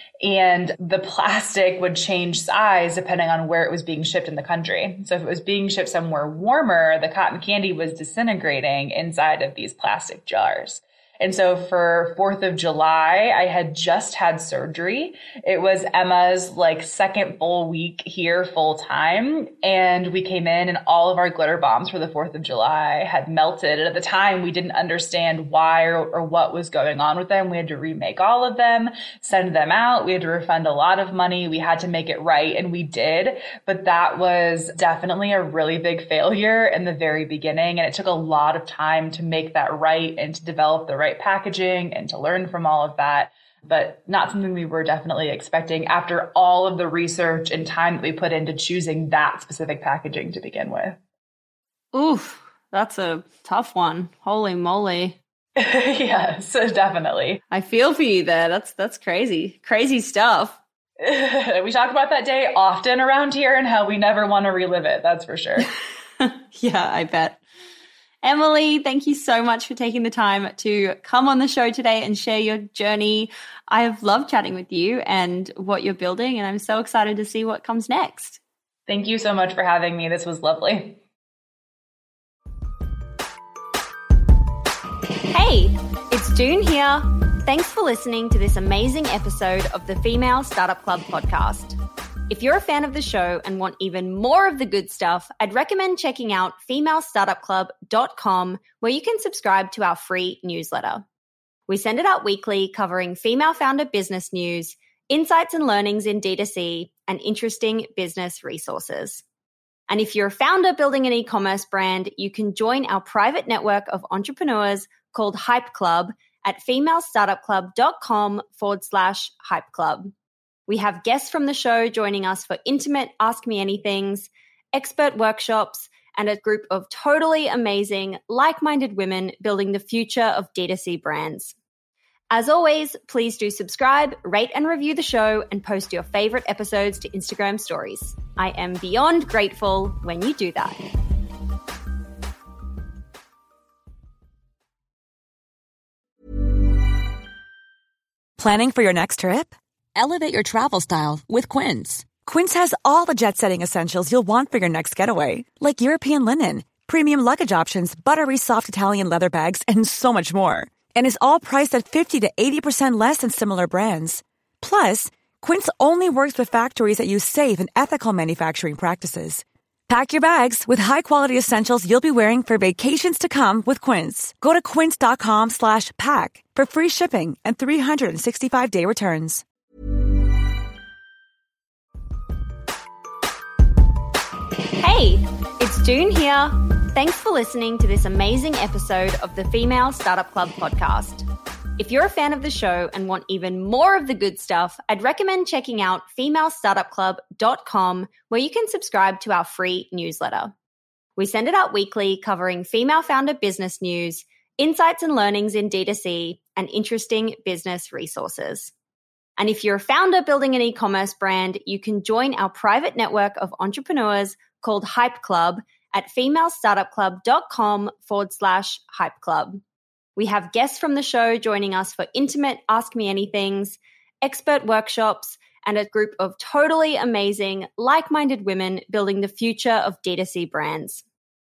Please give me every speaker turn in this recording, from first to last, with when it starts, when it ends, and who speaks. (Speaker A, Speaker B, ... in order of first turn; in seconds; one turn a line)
Speaker A: 0.2-51.0
Speaker B: 51.9-55.2
Speaker A: 55.6-57.4
Speaker B: 57.5-60.6
Speaker A: 61.0-65.7
Speaker B: 66.2-67.4
Speaker B: 68.2-78.4
Speaker A: 78.9-81.0
Speaker B: 85.3-91.8
Speaker B: 92.3-101.0
Speaker B: 101.7-109.2
Speaker B: 109.9-120.1
Speaker B: 120.7-131.6
Speaker B: 132.3-140.8
Speaker C: 148.4-179.4
Speaker B: 184.8-191.3
Speaker B: 191.8-200.5
Speaker B: 201.2-208.7
Speaker B: 209.4-219.6
Speaker B: 220.2-231.0